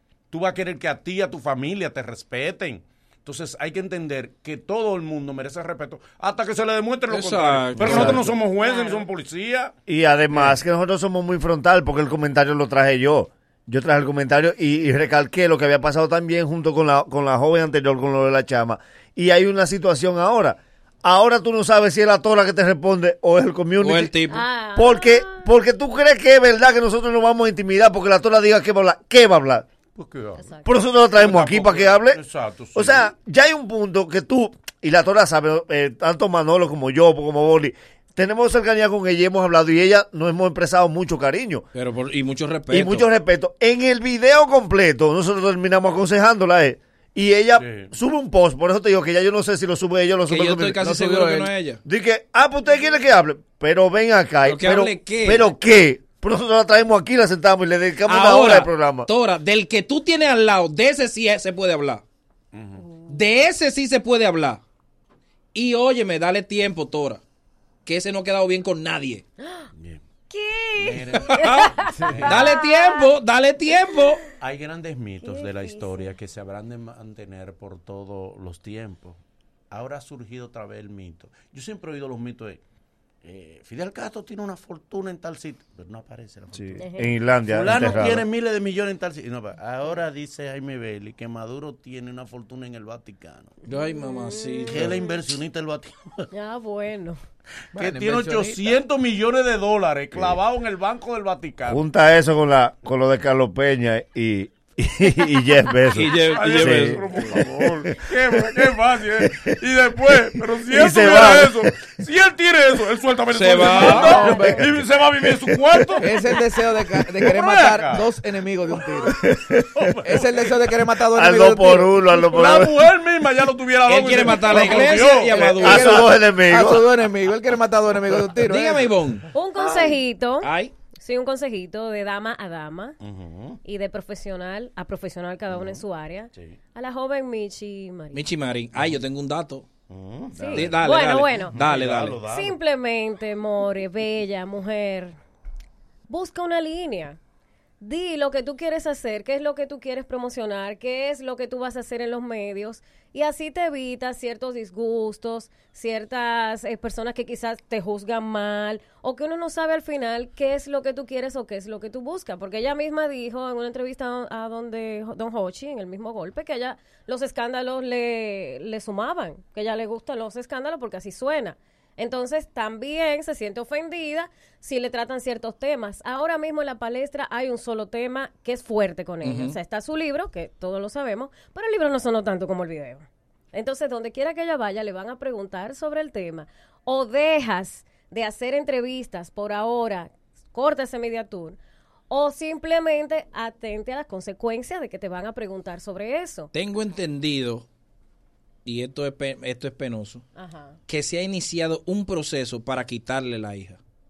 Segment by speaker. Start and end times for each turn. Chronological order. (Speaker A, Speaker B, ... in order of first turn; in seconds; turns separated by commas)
Speaker A: 0.3-9.7, Speaker B: 7.1-8.3, Speaker C: 7.8-8.3, Speaker D: 8.5-9.1, Speaker C: 9.9-24.2, Speaker B: 23.8-24.4, Speaker D: 24.3-25.5, Speaker C: 24.8-29.7, Speaker A: 29.9-30.5, Speaker D: 30.4-30.7, Speaker C: 30.6-32.2, Speaker A: 31.2-33.1, Speaker C: 32.8-41.7, Speaker B: 41.7-43.1, Speaker C: 42.7-50.8, Speaker A: 47.6-47.9, Speaker B: 50.3-51.8, Speaker E: 50.8-51.5, Speaker C: 51.9-59.1, Speaker B: 54.4-55.5, Speaker B: 58.0-62.0, Speaker A: 62.5-62.9, Speaker D: 62.9-63.1, Speaker B: 63.1-64.6, Speaker B: 65.5-67.2, Speaker B: 67.8-69.2, Speaker D: 69.4-69.7, Speaker A: 69.8-70.0, Speaker D: 70.3-73.1, Speaker A: 70.8-72.4, Speaker B: 71.3-71.7, Speaker E: 71.9-72.3, Speaker B: 72.2-74.2, Speaker D: 73.9-74.3, Speaker A: 74.4-79.2, Speaker D: 75.2-76.0, Speaker A: 79.7-82.6, Speaker A: 83.2-93.6, Speaker C: 86.5-88.2, Speaker D: 86.8-87.1, Speaker B: 93.7-94.9, Speaker D: 93.7-95.1, Speaker A: 94.7-96.3, Speaker D: 96.3-97.2, Speaker E: 97.7-98.8, Speaker A: 97.8-101.8, Speaker C: 100.1-100.4, Speaker C: 101.7-107.7, Speaker B: 105.9-107.4, Speaker A: 106.2-116.4, Speaker C: 109.2-109.5, Speaker C: 110.7-111.7, Speaker B: 113.3-114.2, Speaker E: 113.6-114.7, Speaker C: 113.8-116.4, Speaker E: 116.0-119.2, Speaker A: 117.2-118.1, Speaker C: 119.0-119.8, Speaker A: 119.1-120.7, Speaker E: 120.0-122.0, Speaker C: 121.1-122.8, Speaker A: 122.3-126.0, Speaker B: 123.9-125.9, Speaker D: 124.5-125.1, Speaker C: 125.4-126.8, Speaker E: 125.5-128.9, Speaker B: 128.4-129.3, Speaker D: 129.3-133.0, Speaker B: 130.4-130.7, Speaker A: 133.0-133.6, Speaker D: 133.6-138.3, Speaker A: 135.5-136.6, Speaker B: 138.1-139.7, Speaker A: 139.9-140.7, Speaker E: 140.3-140.9, Speaker D: 140.4-141.6, Speaker B: 140.5-142.2, Speaker A: 141.4-142.6, Speaker D: 142.2-145.2, Speaker D: 146.1-147.2, Speaker D: 147.8-196.5, Speaker B: 179.2-179.6, Speaker B: 196.5-197.7, Speaker B: 198.7-200.2, Speaker D: 200.4-200.8, Speaker B: 200.9-203.8